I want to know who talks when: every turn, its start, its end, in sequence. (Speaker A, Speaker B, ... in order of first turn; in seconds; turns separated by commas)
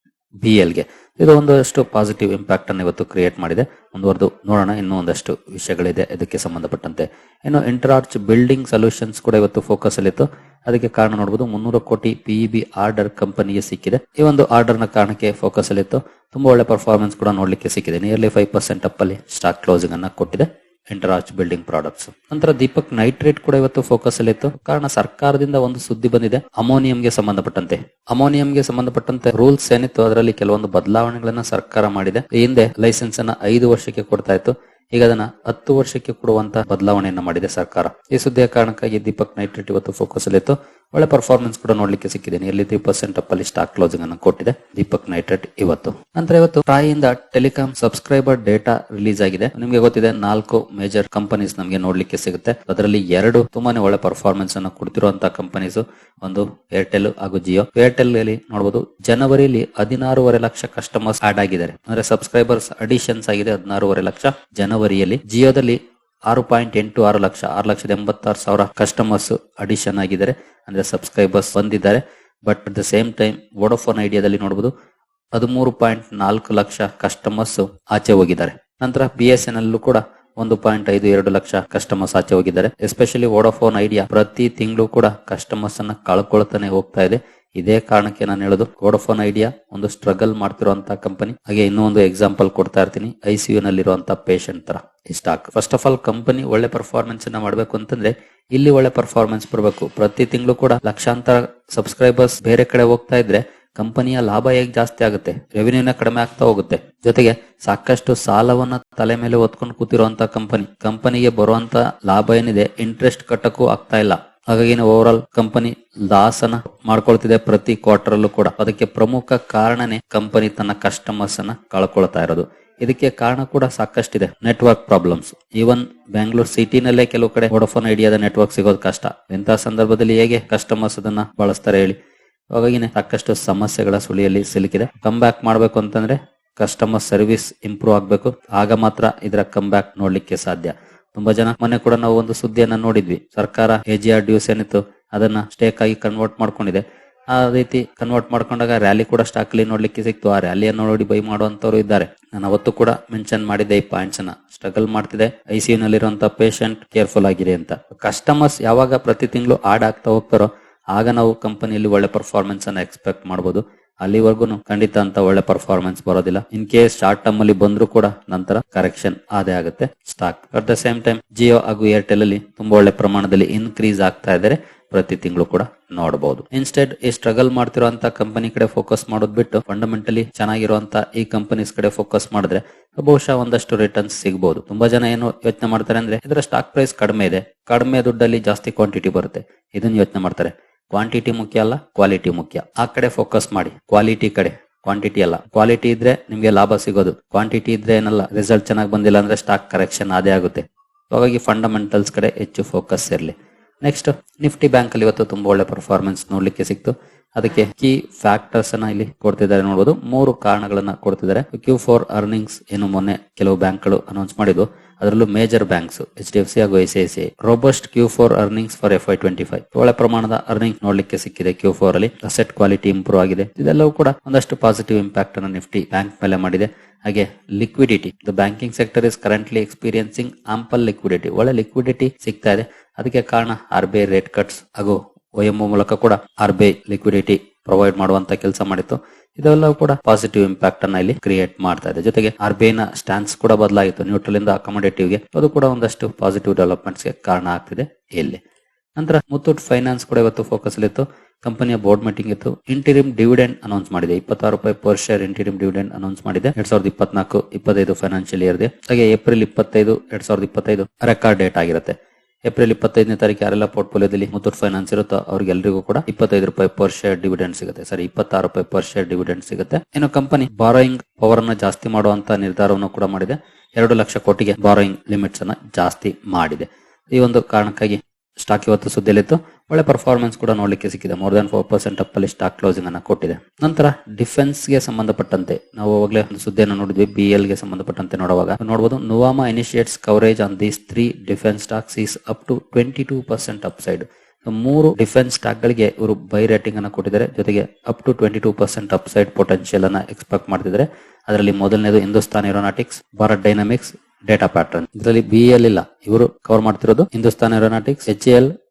Speaker A: 0.4-74.7, Speaker A: 75.3-132.0, Speaker A: 132.5-248.4, Speaker A: 249.0-308.5